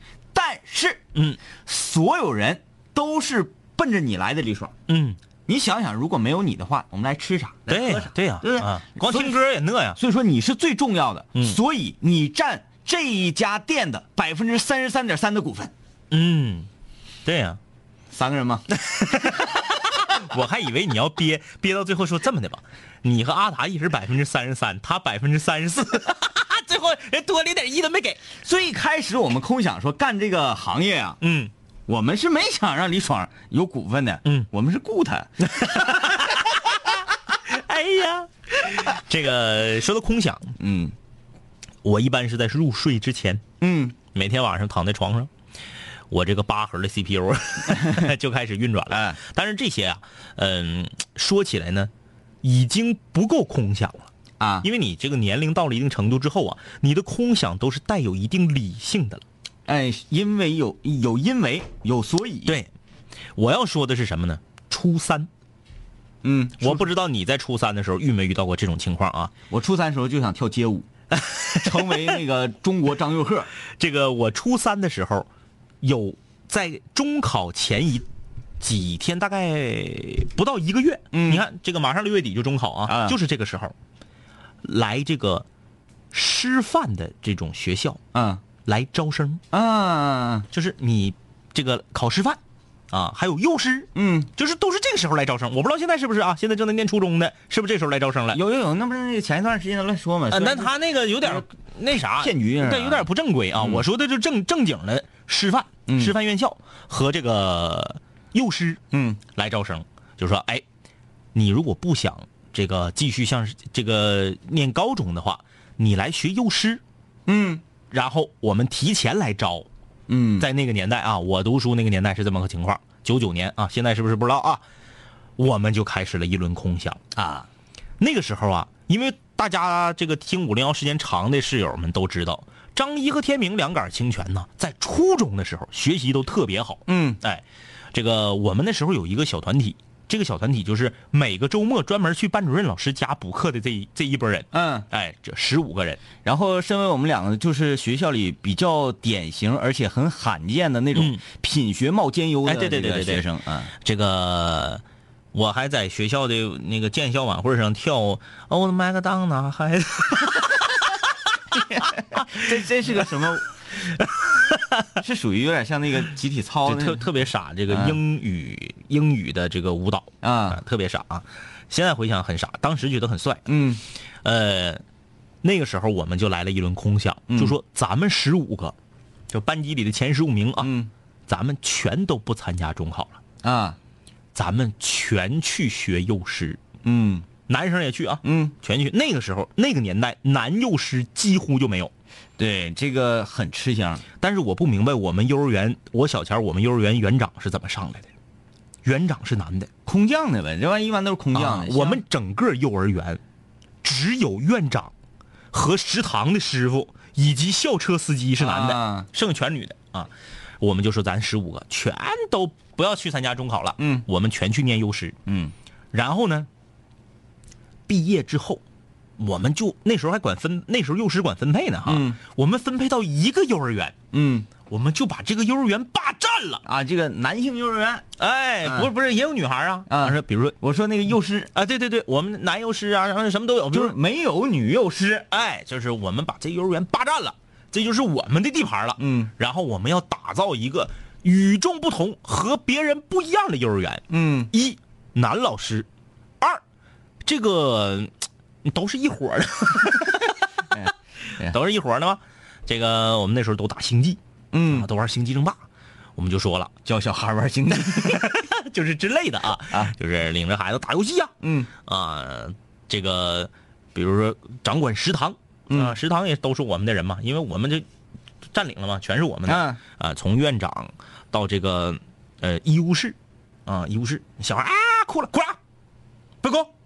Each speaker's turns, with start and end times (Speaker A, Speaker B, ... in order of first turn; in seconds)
Speaker A: 0.3-1.0, 1.6-4.7, 5.5-9.3, 10.0-15.7, 18.1-19.3, 28.4-31.2, 31.9-36.2, 40.6-40.9, 43.6-44.0, 48.9-49.2, 54.4-54.7, 59.7-62.6, 66.2-66.9, 69.5-70.9, 71.5-73.5, 81.1-81.4, 82.9-83.2, 88.1-88.4, 89.5-90.5, 93.9-94.3, 98.3-101.4, 102.2-103.0, 103.6-103.8, 105.9-106.1, 108.9-109.2, 117.3-117.6, 120.1-120.5, 127.1-127.5, 136.9-137.2, 144.5-144.8, 146.2-153.7, 161.6-163.5, 165.0-167.0, 167.7-168.0, 170.2-170.6, 173.5-173.8, 177.3-177.6, 180.6-180.9, 183.4-183.8, 186.8-187.2, 188.2-188.5, 192.4-194.0, 199.8-202.0, 208.4-209.1, 213.8-214.1, 215.3-215.5, 221.8-222.2, 224.1-224.5, 226.6-228.0, 229.9-231.5, 233.7-235.3, 239.0-239.3, 244.1-244.5, 250.7-251.5, 254.5-254.9, 256.8-258.3, 261.4-261.7, 265.7-266.0, 269.5-269.8
Speaker B: 4.9-5.2, 7.7-10.0, 16.1-16.7, 17.2-17.6, 19.1-19.5, 20.1-28.2, 31.2-31.5, 35.6-36.4, 37.5-40.5, 41.8-43.4, 44.1-45.3, 46.1-51.9, 52.4-54.1, 54.6-59.2, 63.4-65.3, 66.6-69.3, 73.8-75.3, 75.8-78.0, 78.6-83.7, 84.6-85.4, 86.1-88.0, 88.6-89.4, 90.5-92.4, 92.9-98.4, 100.3-108.8, 109.3-110.6, 111.3-116.8, 117.9-119.7, 120.4-124.6, 125.4-127.0, 128.0-137.4, 137.9-146.0, 152.4-153.2, 153.8-154.8, 155.3-160.5, 166.7-173.4, 174.2-174.8, 175.4-178.7, 179.3-180.7, 181.3-183.2, 184.3-186.6, 187.5-191.9, 194.2-198.1, 198.8-199.7, 201.3-203.2, 203.8-204.9, 205.5-210.1, 210.6-215.1, 215.9-216.5, 217.9-218.6, 219.2-223.9, 224.7-226.6, 228.2-230.5, 231.5-233.9, 235.3-245.8, 247.2-248.1, 248.7-250.2, 251.5-254.2, 254.7-255.6, 256.2-256.7, 258.2-261.3, 261.9-267.8, 268.5-273.1, 273.7-275.6